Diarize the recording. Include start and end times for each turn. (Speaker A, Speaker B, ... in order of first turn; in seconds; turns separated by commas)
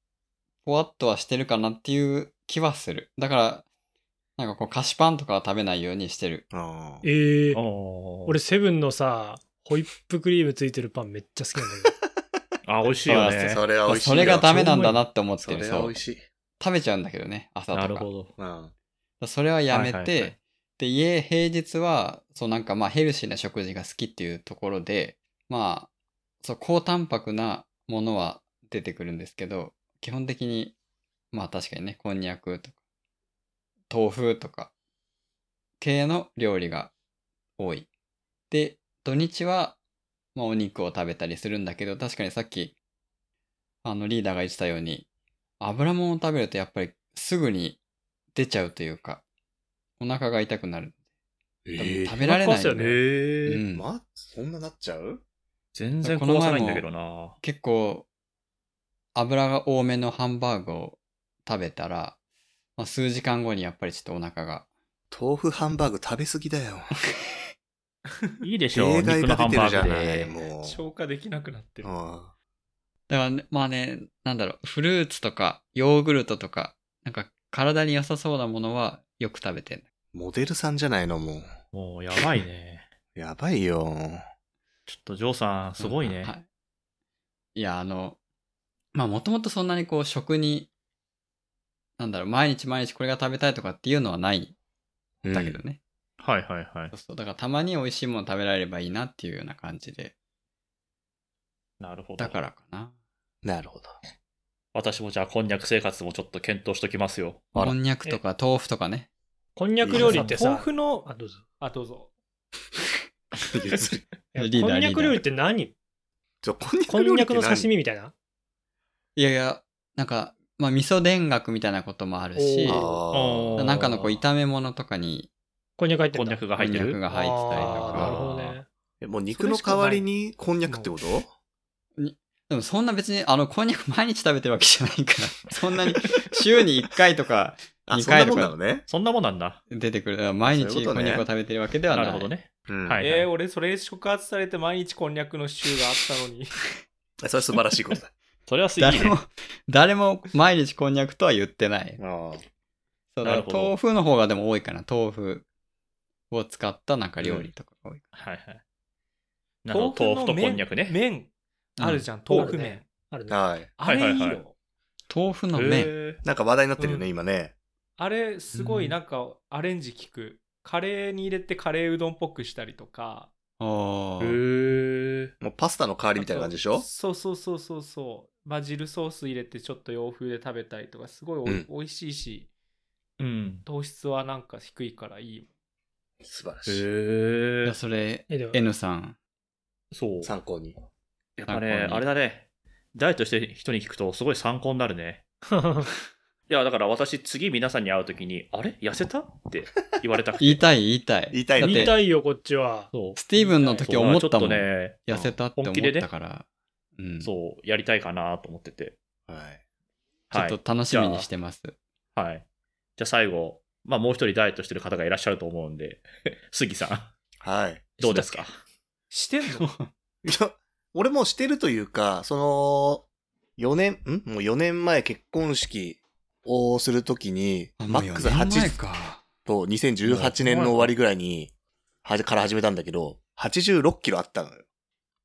Speaker A: 0.6-3.6, Speaker A: 4.4-6.4, Speaker B: 6.5-7.0, Speaker C: 7.0-7.6, Speaker D: 7.5-8.4, Speaker C: 8.2-11.9, Speaker D: 12.7-13.6, Speaker A: 13.1-15.9, Speaker B: 13.4-16.2, Speaker C: 14.5-15.0, Speaker A: 16.6-18.1, Speaker D: 17.7-18.3, Speaker B: 18.4-18.7, Speaker A: 19.2-25.9, Speaker D: 19.7-20.4, Speaker A: 26.4-30.7, Speaker A: 31.3-32.7, Speaker A: 33.9-34.7, Speaker A: 35.8-36.9, Speaker A: 37.6-37.9, Speaker A: 38.5-39.8, Speaker A: 40.3-42.7, Speaker A: 43.8-45.0, Speaker A: 45.6-47.8, Speaker A: 48.3-49.2, Speaker A: 50.0-51.0, Speaker B: 51.7-52.2, Speaker A: 51.8-53.9, Speaker C: 52.2-53.0, Speaker D: 52.7-53.6, Speaker B: 53.7-55.2, Speaker D: 55.7-57.4, Speaker A: 56.0-56.9, Speaker A: 57.4-58.1, Speaker A: 59.1-62.2, Speaker A: 62.8-64.7, Speaker B: 65.1-66.9, Speaker D: 68.4-70.3, Speaker B: 68.7-70.8, Speaker A: 69.7-70.1, Speaker E: 70.6-71.9, Speaker B: 71.8-72.3, Speaker A: 73.1-79.8, Speaker B: 80.1-81.5, Speaker D: 81.7-82.9, Speaker B: 83.1-84.2, Speaker D: 84.9-86.3, Speaker A: 85.8-86.5, Speaker A: 87.5-88.2, Speaker A: 88.9-90.7, Speaker A: 92.0-94.5, Speaker B: 95.2-95.6, Speaker A: 95.3-95.8, Speaker D: 96.2-96.9, Speaker A: 96.9-100.1, Speaker D: 101.8-102.4, Speaker A: 102.2-102.9, Speaker B: 103.4-104.0, Speaker D: 104.7-107.5, Speaker A: 107.5-109.1, Speaker C: 109.5-111.4, Speaker B: 109.8-110.3, Speaker E: 110.0-112.1, Speaker B: 113.5-114.0, Speaker C: 114.3-115.7, Speaker A: 114.4-115.2, Speaker B: 116.4-117.7, Speaker C: 116.8-118.1, Speaker A: 119.2-122.9, Speaker C: 122.3-123.0, Speaker B: 122.7-123.7, Speaker D: 123.1-124.2, Speaker A: 123.6-125.3, Speaker C: 125.8-126.5, Speaker D: 126.1-127.0, Speaker A: 126.6-128.2, Speaker C: 127.1-128.7, Speaker D: 127.5-128.6, Speaker B: 129.0-131.3, Speaker E: 129.3-130.0, Speaker E: 130.7-130.9, Speaker A: 132.0-138.5, Speaker B: 137.9-138.8, Speaker D: 138.9-139.6, Speaker A: 139.7-142.3, Speaker B: 140.5-141.2, Speaker D: 141.9-143.3, Speaker B: 142.7-143.0, Speaker E: 143.0-146.6, Speaker B: 147.2-148.1, Speaker D: 148.5-149.2, Speaker A: 148.8-152.0, Speaker B: 152.0-152.4, Speaker A: 153.1-155.4, Speaker D: 153.2-153.8, Speaker A: 156.3-158.0, Speaker B: 157.2-157.5, Speaker D: 158.1-158.6, Speaker D: 159.6-160.9, Speaker E: 159.7-162.9, Speaker A: 161.8-162.0, Speaker D: 162.3-162.5, Speaker C: 162.3-163.4, Speaker B: 163.3-163.7, Speaker E: 163.8-164.5, Speaker D: 163.8-164.4, Speaker A: 165.1-165.9, Speaker D: 165.5-166.2, Speaker B: 166.2-167.5, Speaker E: 166.8-167.1, Speaker E: 168.0-173.3, Speaker A: 168.5-169.0, Speaker A: 173.6-174.4, Speaker D: 174.2-175.3, Speaker B: 175.4-176.8, Speaker E: 176.2-182.5, Speaker D: 183.2-183.6, Speaker E: 183.7-185.5, Speaker B: 186.2-186.8, Speaker D: 186.7-187.8, Speaker A: 187.6-189.2, Speaker C: 188.3-188.6, Speaker D: 189.9-190.3, Speaker B: 190.2-190.8, Speaker B: 191.4-192.0, Speaker D: 191.5-195.2, Speaker A: 191.5-191.9, Speaker C: 195.5-195.9, Speaker D: 196.5-200.6, Speaker A: 200.4-201.9, Speaker B: 201.3-202.0, Speaker C: 201.6-202.9, Speaker D: 202.9-203.2, Speaker A: 203.2-207.3, Speaker E: 203.3-203.9, Speaker D: 203.8-206.1, Speaker D: 207.2-208.9, Speaker B: 209.3-209.6, Speaker D: 210.3-211.3, Speaker A: 210.3-211.7, Speaker D: 212.1-212.4, Speaker D: 213.0-217.1, Speaker B: 217.4-217.9, Speaker D: 218.0-218.6, Speaker A: 218.0-218.4, Speaker E: 219.1-219.7, Speaker A: 219.6-219.9, Speaker B: 220.2-223.1, Speaker B: 223.6-228.8, Speaker A: 227.8-229.2, Speaker B: 229.4-231.5, Speaker D: 230.1-230.9, Speaker B: 232.0-234.6